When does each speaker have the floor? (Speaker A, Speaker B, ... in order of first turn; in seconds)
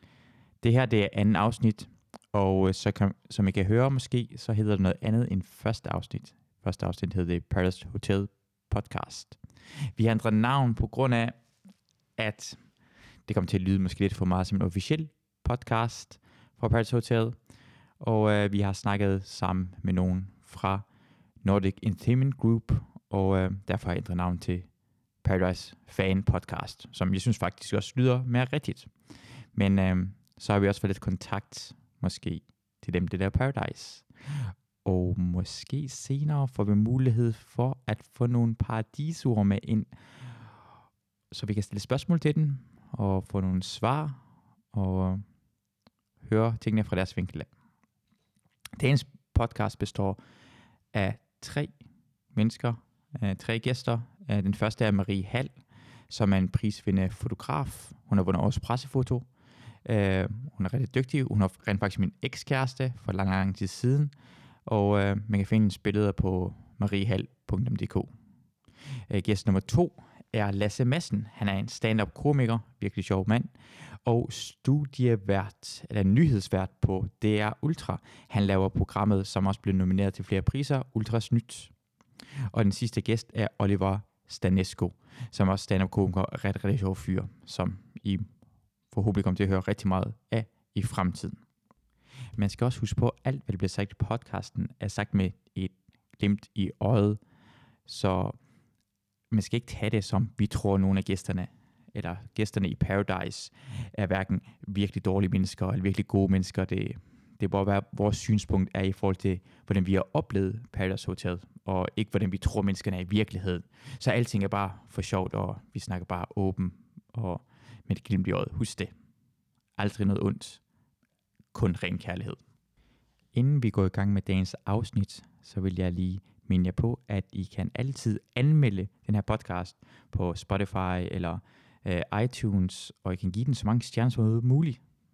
Speaker A: 0.6-9.4, 9.9-11.4, 12.2-12.6, 13.2-17.4, 18.0-20.9, 21.4-28.9, 29.5-39.9, 41.3-44.2, 44.7-45.2, 46.2-47.5, 48.8-50.2, 50.9-51.7, 52.3-55.6, 56.1-59.3, 59.8-64.1, 64.7-68.1, 69.1-81.7, 82.5-88.3, 88.9-91.4, 92.3-97.2, 97.8-98.4, 99.3-118.9, 119.8-120.6, 121.5-122.4, 123.3-134.8